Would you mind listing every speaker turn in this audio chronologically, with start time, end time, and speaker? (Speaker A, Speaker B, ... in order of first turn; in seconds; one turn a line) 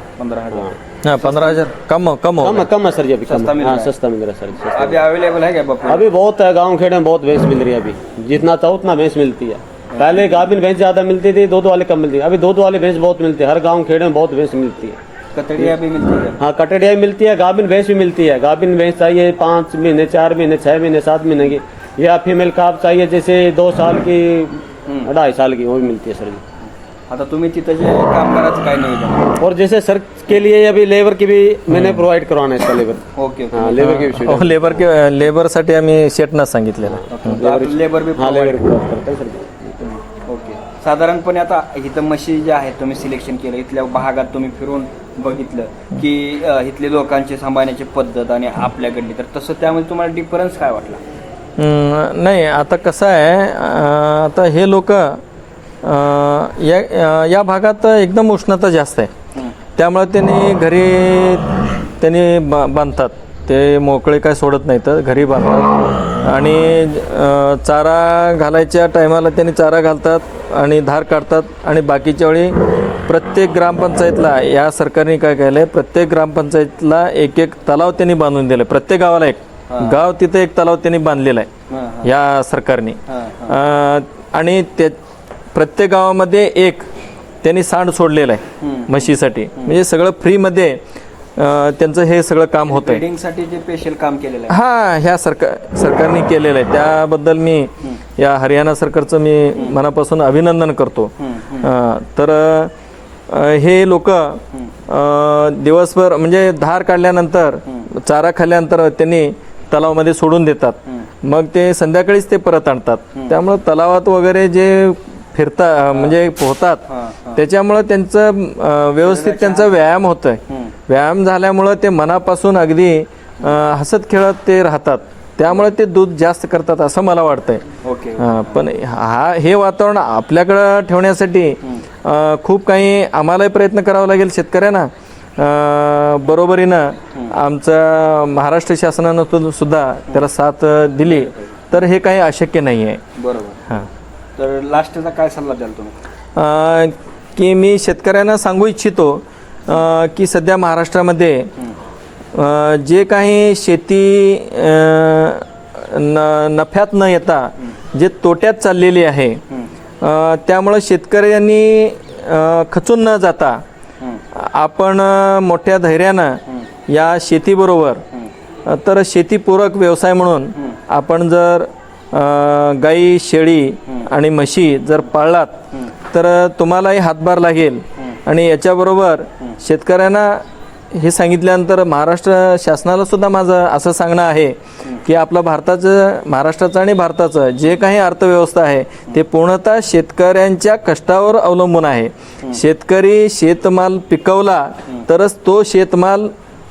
Speaker A: 0.2-1.6
Speaker B: 1.0-2.7
Speaker C: 2.4-5.0
Speaker A: 3.2-3.9
Speaker A: 4.7-6.1
Speaker C: 5.8-15.0
Speaker A: 9.9-10.4
Speaker A: 15.3-16.4
Speaker C: 16.4-26.4
Speaker A: 26.6-29.4
Speaker C: 29.4-34.7
Speaker B: 31.7-32.0
Speaker A: 33.1-34.3
Speaker B: 33.8-37.4
Speaker C: 36.9-39.8
Speaker A: 37.1-38.6
Speaker A: 39.8-51.0
Speaker B: 51.6-55.2
Speaker B: 55.8-59.1
Speaker B: 59.8-81.5
Speaker A: 79.7-80.0
Speaker A: 81.7-82.1
Speaker B: 82.0-85.0
Speaker A: 83.1-83.6
Speaker B: 85.5-86.9
Speaker B: 87.4-90.8
Speaker A: 88.6-89.8
Speaker B: 91.3-93.0
Speaker A: 92.7-94.6
Speaker B: 94.5-102.7
Speaker A: 101.2-101.7
Speaker B: 103.3-116.8
Speaker A: 116.8-117.4
Speaker B: 117.3-127.7
Speaker A: 119.0-119.7
Speaker A: 120.5-120.7
Speaker A: 127.8-128.6
Speaker B: 128.2-143.0
Speaker A: 141.0-141.5
Speaker A: 143.2-143.6
Speaker A: 144.4-146.0
Speaker B: 146.3-151.5
Speaker B: 152.3-159.4
Speaker B: 160.0-163.6
Speaker B: 164.3-168.0
Speaker B: 168.7-196.3